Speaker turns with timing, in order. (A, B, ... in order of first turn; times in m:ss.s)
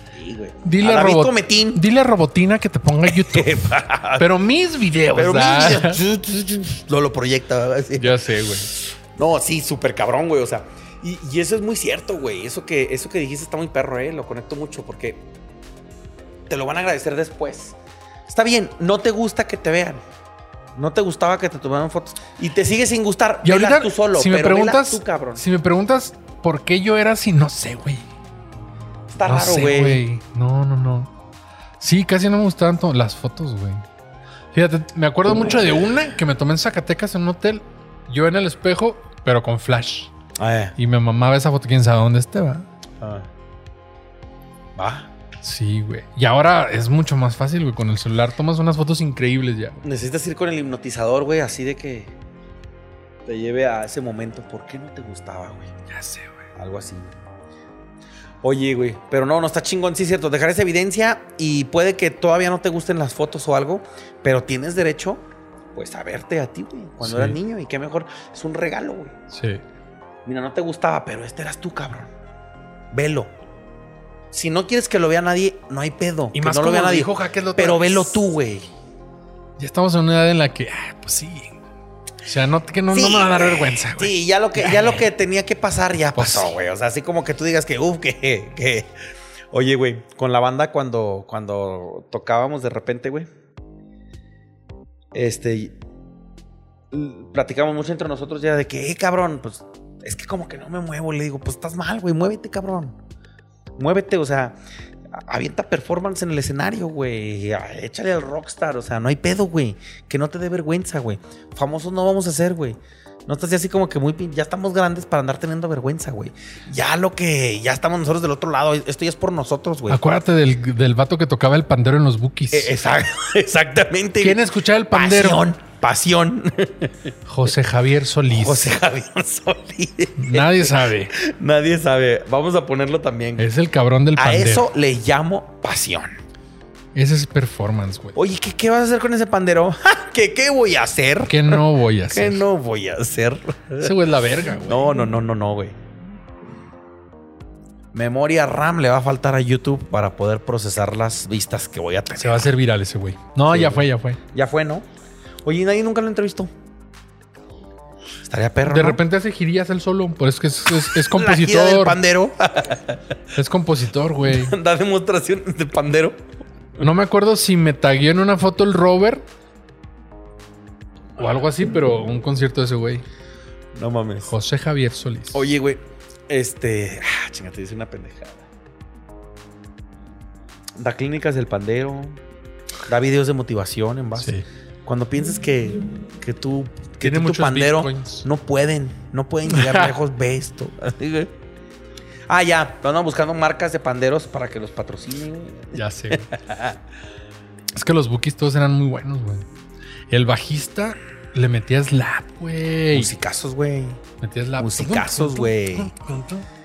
0:00.1-0:01.8 A
0:00.6-0:06.0 B
0:03.1-0:04.3 A
0:05.1-0:15.3 A
0:08.0-0:08.8 B
0:16.5-0:17.8 A
0:18.3-0:20.0 A
0:20.8-0:25.4 A
0:23.4-0:28.1 B
0:29.1-0:30.0 A
0:29.2-0:31.1 B
0:31.8-0:33.8 B
0:34.5-0:40.1 B
0:40.4-0:40.8 A
0:40.8-0:42.7 B
0:43.0-0:43.3 A
0:44.8-0:45.1 A
0:45.4-0:49.8 B
0:49.8-0:52.2 A
0:53.3-0:55.7 A
0:55.9-0:56.4 B
0:56.6-0:57.1 A
0:58.4-1:05.2 A
1:05.8-1:09.2 A
1:07.0-1:07.4 B
1:09.3-1:09.6 B
1:10.3-1:12.1 A
1:12.9-1:13.3 A
1:14.3-1:18.7 A
1:16.3-1:18.1 B
1:19.6-1:21.6 B
1:22.2-1:25.0 B
1:22.9-1:28.9 A
1:26.2-1:26.5 B
1:29.5-1:33.3 A
1:35.1-1:35.8 A
1:36.9-1:43.0 A
1:43.8-1:44.6 A
1:45.1-2:00.0 A
1:59.9-2:02.7 B
2:02.5-2:04.4 A
2:04.2-2:05.4 B
2:04.9-2:07.1 A
2:07.3-2:08.7 B
2:08.3-2:13.5 A
2:10.2-2:11.1 B
2:13.4-2:14.7 B
2:14.2-2:16.2 A
2:17.0-2:18.2 B
2:18.2-2:23.9 A
2:21.3-2:22.4 B
2:23.8-2:25.0 B
2:24.6-2:25.8 A
2:27.9-2:32.5 A
2:32.2-2:34.2 B
2:33.5-2:34.8 A
2:35.4-2:36.5 A
2:38.2-2:39.0 A
2:38.7-2:42.0 B
2:40.9-2:43.0 A
2:43.3-2:44.6 B
2:44.3-2:46.2 A
2:46.8-2:49.3 B
2:51.2-2:53.1 B
2:53.8-2:54.3 A
2:54.2-2:55.5 B
2:55.3-2:58.5 A
3:00.8-3:02.2 A
3:02.9-3:11.3 A
3:04.2-3:04.4 B
3:07.0-3:08.3 B
3:09.5-3:10.0 B
3:12.3-3:16.8 A
3:15.8-3:16.3 B
3:17.7-3:19.5 B
3:20.1-3:23.1 B
3:22.9-3:24.0 A
3:24.2-3:26.5 B
3:24.6-3:25.9 A